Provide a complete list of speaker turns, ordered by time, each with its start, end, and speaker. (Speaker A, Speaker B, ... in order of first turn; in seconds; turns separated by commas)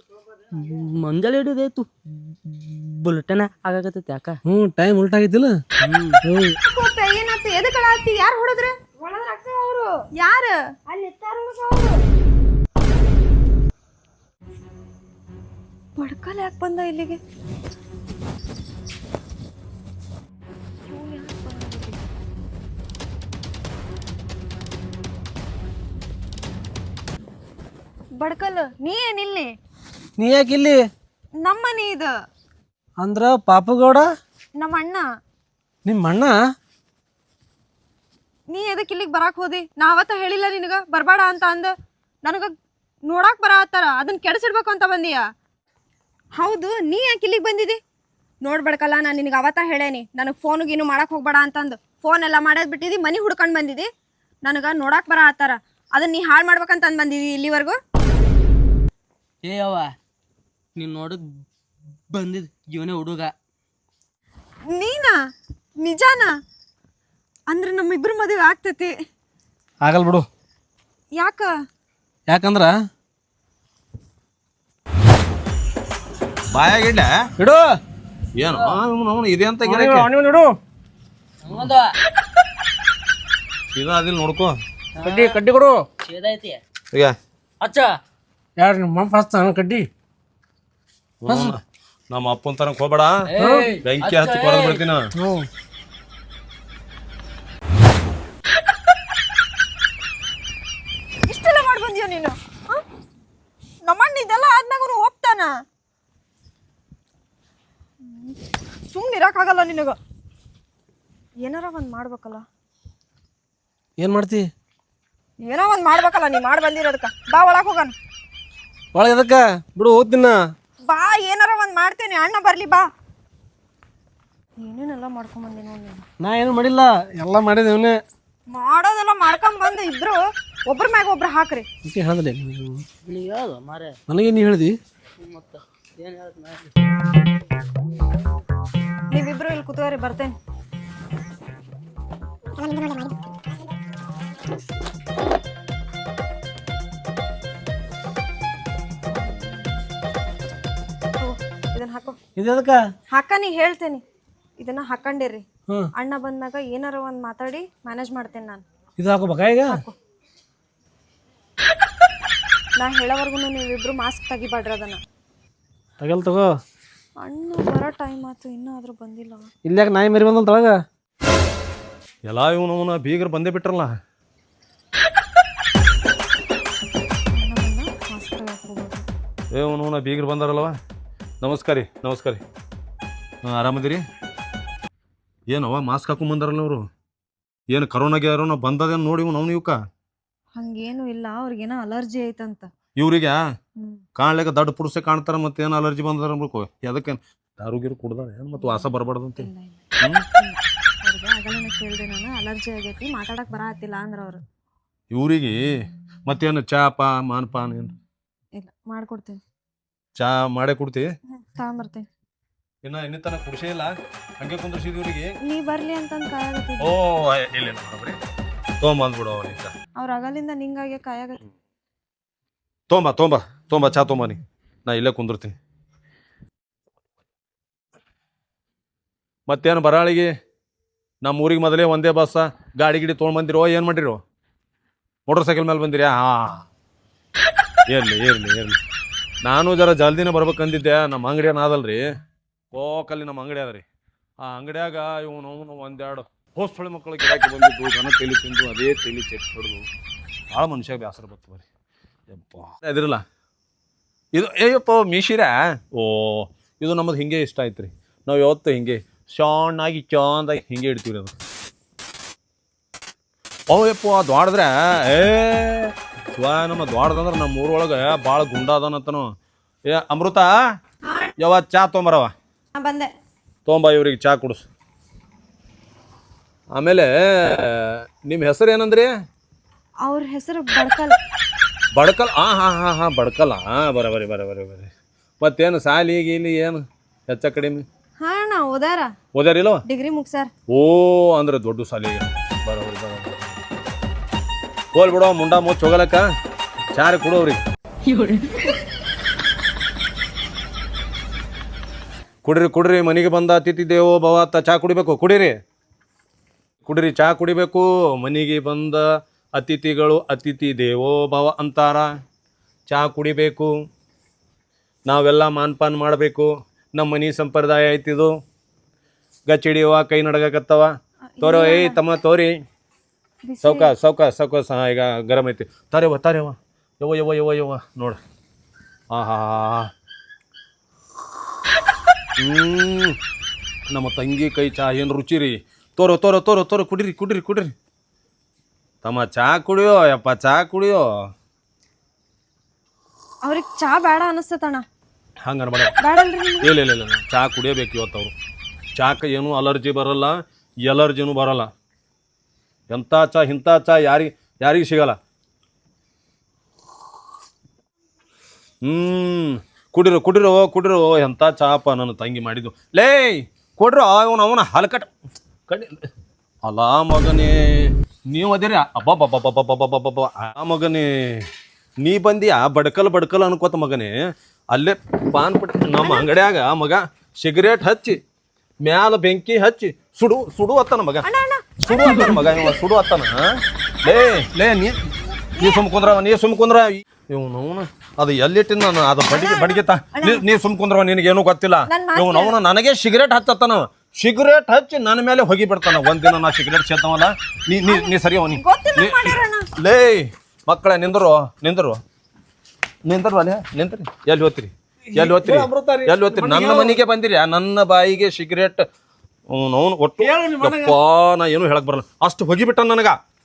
Speaker A: 0.5-4.4, Speaker B: 4.5-5.6, Speaker A: 5.8-6.2, Speaker B: 6.2-6.6, Speaker C: 6.6-8.8, Speaker D: 9.0-9.9, Speaker C: 10.2-10.6, Speaker D: 10.9-12.0, Speaker C: 16.0-17.2, Speaker C: 20.9-22.1, Speaker C: 28.2-29.5, Speaker B: 30.2-30.8, Speaker C: 31.4-32.1, Speaker B: 33.0-34.1, Speaker C: 34.6-35.0, Speaker B: 35.9-36.3, Speaker C: 38.5-41.7, Speaker C: 42.2-42.5, Speaker C: 43.1-45.2, Speaker C: 46.4-47.8, Speaker C: 48.4-53.9, Speaker C: 54.5-57.8, Speaker A: 59.4-59.9, Speaker A: 60.8-61.2, Speaker A: 62.1-63.3, Speaker C: 64.7-65.1, Speaker C: 65.8-66.3, Speaker C: 67.5-68.9, Speaker B: 69.8-70.3, Speaker C: 71.2-71.5, Speaker B: 72.3-72.7, Speaker E: 76.5-77.1, Speaker B: 77.4-77.6, Speaker E: 78.4-80.1, Speaker A: 78.5-78.8, Speaker B: 79.6-80.5, Speaker A: 81.4-81.9, Speaker E: 83.7-84.5, Speaker A: 85.0-85.4, Speaker B: 85.0-85.9, Speaker A: 86.0-86.6, Speaker A: 87.6-87.9, Speaker B: 88.6-89.9, Speaker E: 91.2-93.2, Speaker B: 91.3-91.5, Speaker A: 93.3-94.8, Speaker B: 93.4-93.7, Speaker E: 93.8-95.1, Speaker B: 95.2-95.5, Speaker C: 101.3-102.8, Speaker C: 103.9-105.5, Speaker C: 108.0-108.4, Speaker C: 108.9-110.0, Speaker C: 111.4-112.5, Speaker B: 114.0-114.5, Speaker C: 115.5-117.9, Speaker B: 118.9-120.4, Speaker C: 120.9-122.8, Speaker C: 124.6-126.0, Speaker B: 126.2-128.0, Speaker C: 128.5-131.7, Speaker B: 131.8-132.8, Speaker A: 133.1-134.0, Speaker B: 134.1-134.8, Speaker A: 135.2-136.7, Speaker C: 139.1-140.4, Speaker D: 142.6-143.1, Speaker C: 149.1-149.7, Speaker C: 151.2-152.2, Speaker B: 152.4-152.8, Speaker C: 153.1-154.0, Speaker C: 154.6-155.4, Speaker C: 156.0-158.6, Speaker B: 159.0-159.8, Speaker C: 159.7-159.9, Speaker C: 162.8-165.0, Speaker B: 166.0-166.5, Speaker C: 167.2-169.5, Speaker B: 169.7-170.8, Speaker E: 172.3-173.9, Speaker C: 177.3-179.1, Speaker E: 179.5-180.8, Speaker E: 181.4-182.4, Speaker E: 183.4-184.0, Speaker E: 185.5-186.9, Speaker E: 187.7-189.8, Speaker C: 190.6-192.7, Speaker E: 193.0-193.4, Speaker E: 194.2-199.5, Speaker C: 198.6-199.8, Speaker C: 200.4-204.4, Speaker E: 205.1-205.7, Speaker E: 206.3-208.0, Speaker C: 208.6-209.4, Speaker E: 210.2-211.1, Speaker C: 211.3-212.1, Speaker E: 212.8-215.3, Speaker C: 215.5-216.9, Speaker E: 216.8-218.2, Speaker E: 218.8-219.7, Speaker C: 220.0-221.4, Speaker E: 222.9-225.6, Speaker E: 229.5-230.3, Speaker E: 231.2-234.2, Speaker E: 235.3-236.7, Speaker E: 237.9-238.8, Speaker E: 239.4-242.1, Speaker E: 242.7-243.8, Speaker E: 244.4-249.9, Speaker E: 250.5-251.7, Speaker E: 252.3-253.2, Speaker E: 254.3-261.4, Speaker E: 263.7-269.3, Speaker E: 269.9-270.6, Speaker E: 271.4-272.3, Speaker C: 272.8-273.1, Speaker E: 273.6-274.6, Speaker E: 276.8-279.1, Speaker C: 280.1-281.1, Speaker E: 281.9-287.9, Speaker C: 288.2-289.1, Speaker E: 289.3-289.8, Speaker C: 289.9-290.5, Speaker E: 290.7-293.6, Speaker E: 294.9-296.3, Speaker E: 296.9-297.6, Speaker C: 298.1-298.5, Speaker E: 302.4-305.6, Speaker E: 306.8-312.1, Speaker E: 312.9-313.7, Speaker E: 315.1-318.3, Speaker E: 319.5-322.6, Speaker C: 321.4-322.0, Speaker C: 323.4-323.9, Speaker E: 323.6-328.2, Speaker E: 329.1-329.9, Speaker E: 332.4-333.2, Speaker E: 333.9-337.7, Speaker E: 339.0-341.0, Speaker C: 343.4-344.9, Speaker E: 345.4-345.9, Speaker C: 346.0-346.7, Speaker E: 346.6-348.3, Speaker E: 349.0-351.7, Speaker E: 352.9-355.2, Speaker E: 358.8-365.1, Speaker E: 365.7-366.1, Speaker E: 366.6-371.5, Speaker E: 372.0-374.1, Speaker E: 374.7-378.2, Speaker E: 378.8-381.3, Speaker C: 381.2-382.7, Speaker E: 381.8-385.0, Speaker C: 384.1-384.5, Speaker C: 385.4-386.1, Speaker E: 385.6-402.0, Speaker C: 389.3-390.4, Speaker C: 391.9-392.6, Speaker C: 397.9-399.7, Speaker E: 403.1-408.9, Speaker B: 405.1-407.0, Speaker E: 409.5-413.2, Speaker B: 410.2-410.9